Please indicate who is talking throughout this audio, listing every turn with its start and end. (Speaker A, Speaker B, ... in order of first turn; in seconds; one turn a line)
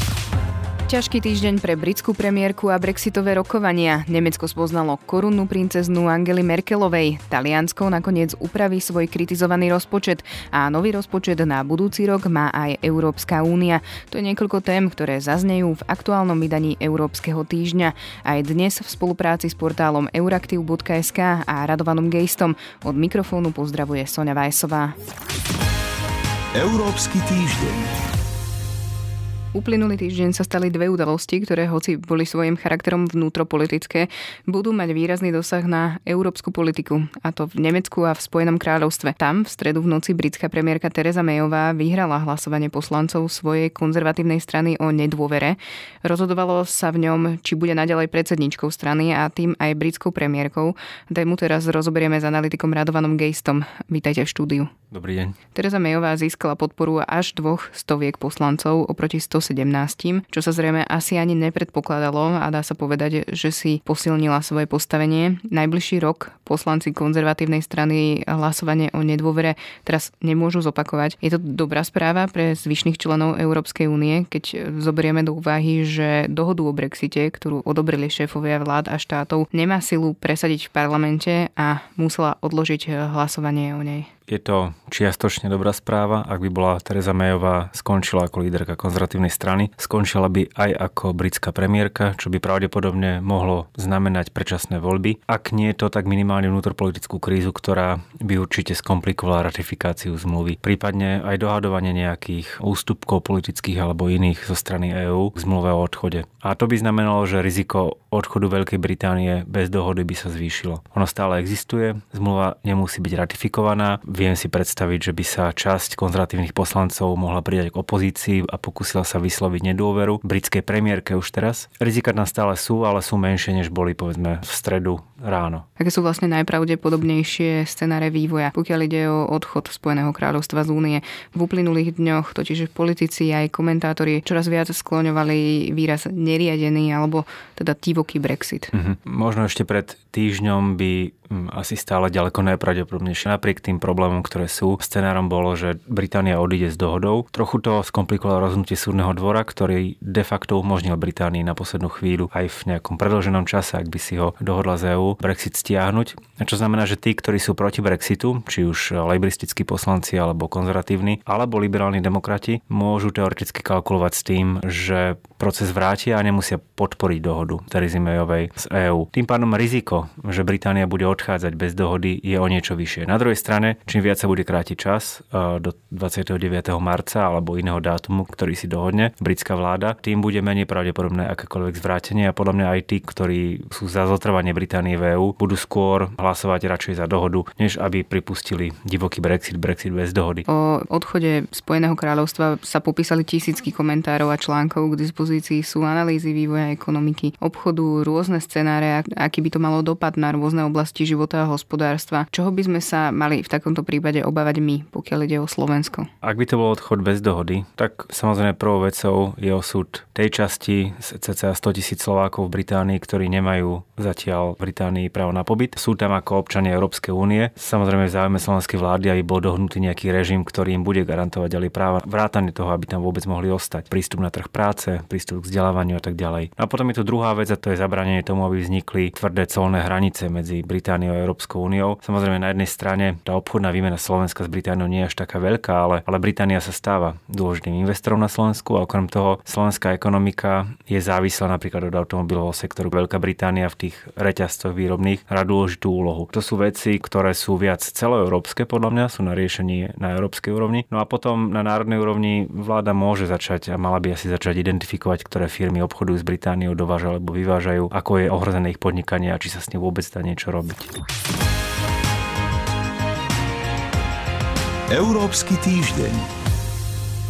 Speaker A: 0.9-24.9
Speaker B: 26.6-27.9
Speaker A: 29.5-54.7
Speaker C: 54.9-55.4
Speaker A: 55.5-84.1
Speaker C: 84.3-125.7
Speaker A: 125.8-138.7
Speaker C: 138.7-190.4
Speaker A: 190.5-206.1
Speaker C: 206.2-260.9
Speaker B: 264.9-266.3